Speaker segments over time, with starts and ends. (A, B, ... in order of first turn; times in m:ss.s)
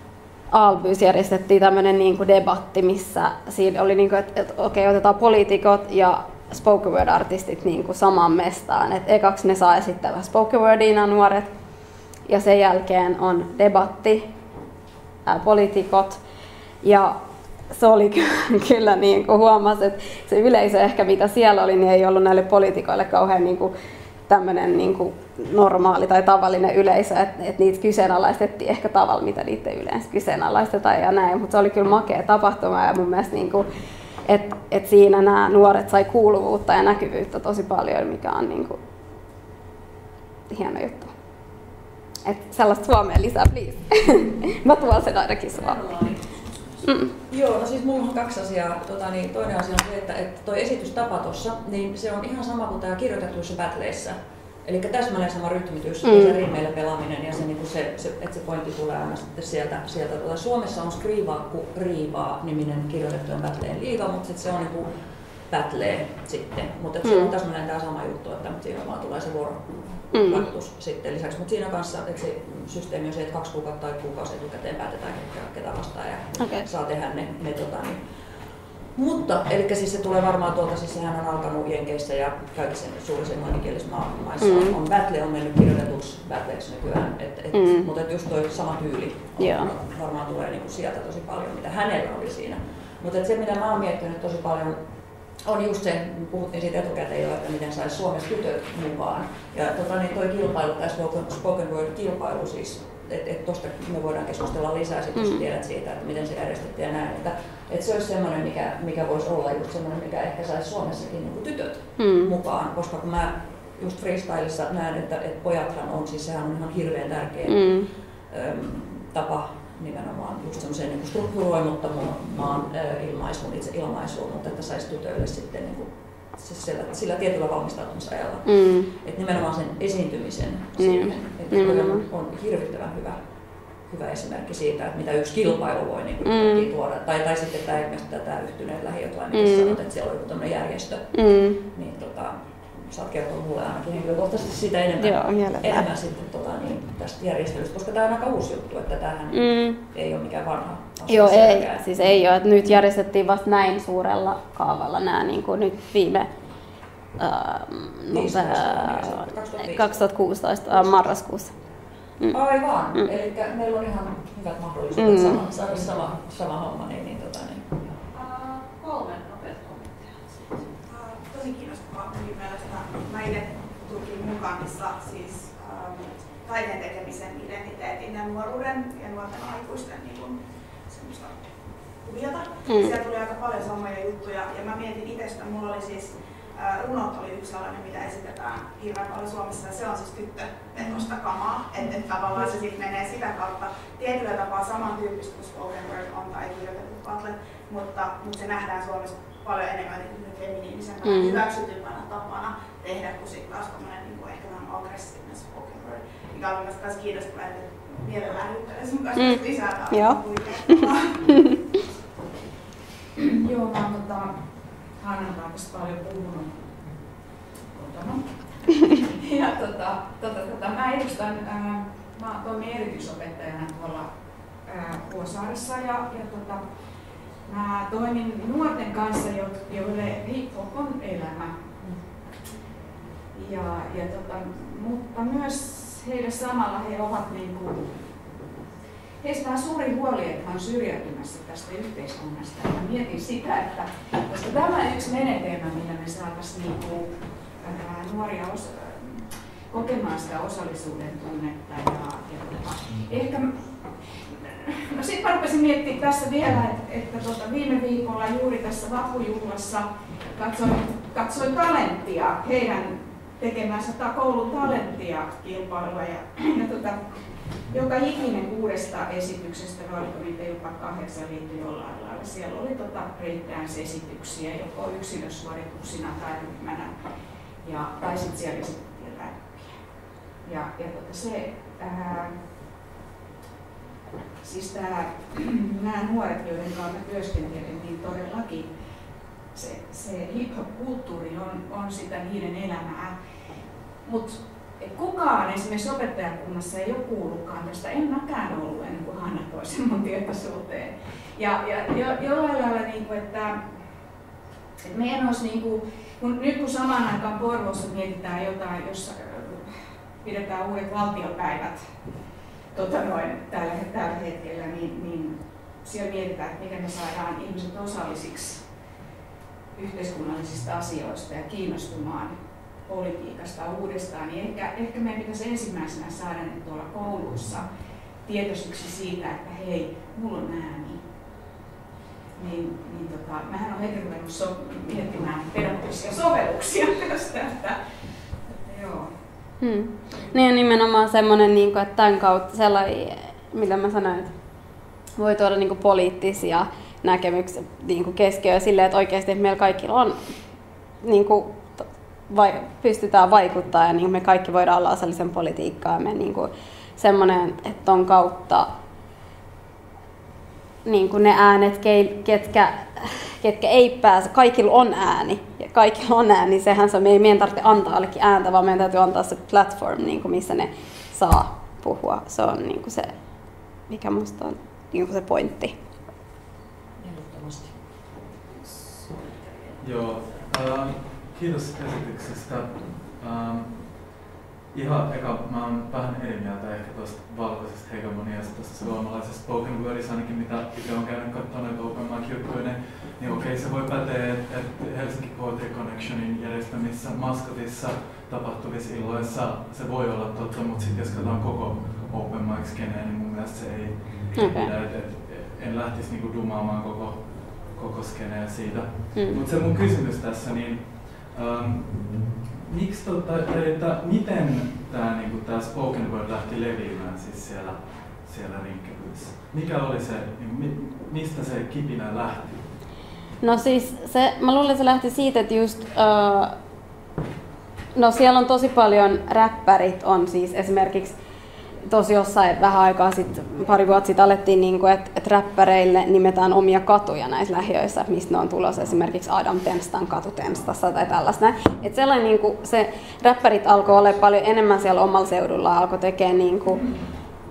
0:00.5-0:11.5 A
0:12.3-0:14.3 A
0:15.3-0:16.2 A
0:16.8-0:17.2 A
0:17.7-0:23.7 A
0:24.3-0:33.7 A
0:34.3-0:38.8 A
0:40.5-0:41.1 A
0:42.2-0:45.8 A
0:45.7-1:04.9 B
0:46.8-0:47.1 A
0:56.0-0:56.4 A
1:05.5-1:18.0 B
1:07.0-1:07.3 A
1:10.1-1:10.5 A
1:16.4-1:16.7 A
1:19.0-1:34.8 B
1:24.4-1:24.8 A
1:27.5-1:27.9 A
1:29.4-1:29.7 A
1:35.4-2:13.2 B
1:45.2-1:45.4 A
1:52.0-1:52.4 A
1:57.5-1:57.9 A
2:08.5-2:08.9 A
2:10.8-2:12.0 A
2:13.9-2:32.2 B
2:16.2-2:16.7 A
2:19.3-2:19.8 A
2:21.1-2:21.6 A
2:25.0-2:25.9 A
2:29.3-2:29.8 A
2:31.1-2:36.3 A
2:37.2-2:41.5 A
2:38.1-2:40.0 B
2:40.7-2:41.2 B
2:42.3-2:47.7 B
2:45.0-2:45.4 A
2:50.9-3:01.5 C
3:02.0-3:31.3 C
3:02.7-3:03.0 A
3:21.0-3:21.4 A
3:29.2-3:31.5 A
3:33.2-3:34.4 D
3:35.0-3:36.7 D
3:37.7-3:44.1 D
3:44.6-3:46.7 D
3:47.4-3:51.7 D
3:53.3-3:57.9 D
3:59.2-4:27.0 D
4:27.7-4:36.9 D
4:37.6-4:39.8 D
4:40.4-4:42.4 D
4:44.4-4:48.7 D
4:49.5-4:53.2 D
4:54.0-5:03.6 D
5:04.8-5:09.7 D
5:10.2-5:11.9 D
5:12.7-5:18.7 D
5:19.8-5:22.3 D
5:22.8-5:27.7 D
5:28.2-5:31.0 D
5:32.4-5:37.8 D
5:38.5-5:39.1 D
5:39.6-5:44.3 A
5:45.2-5:50.2 A
5:51.0-5:58.7 A
6:00.8-6:13.2 A
6:13.9-6:15.8 A
6:17.0-6:17.8 B
6:18.7-6:19.3 B
6:19.8-6:24.2 E
6:24.7-7:02.7 E
6:44.3-6:44.7 A
6:49.1-6:49.4 A
7:03.4-7:06.5 A
7:08.0-7:11.2 A
7:11.9-7:26.9 A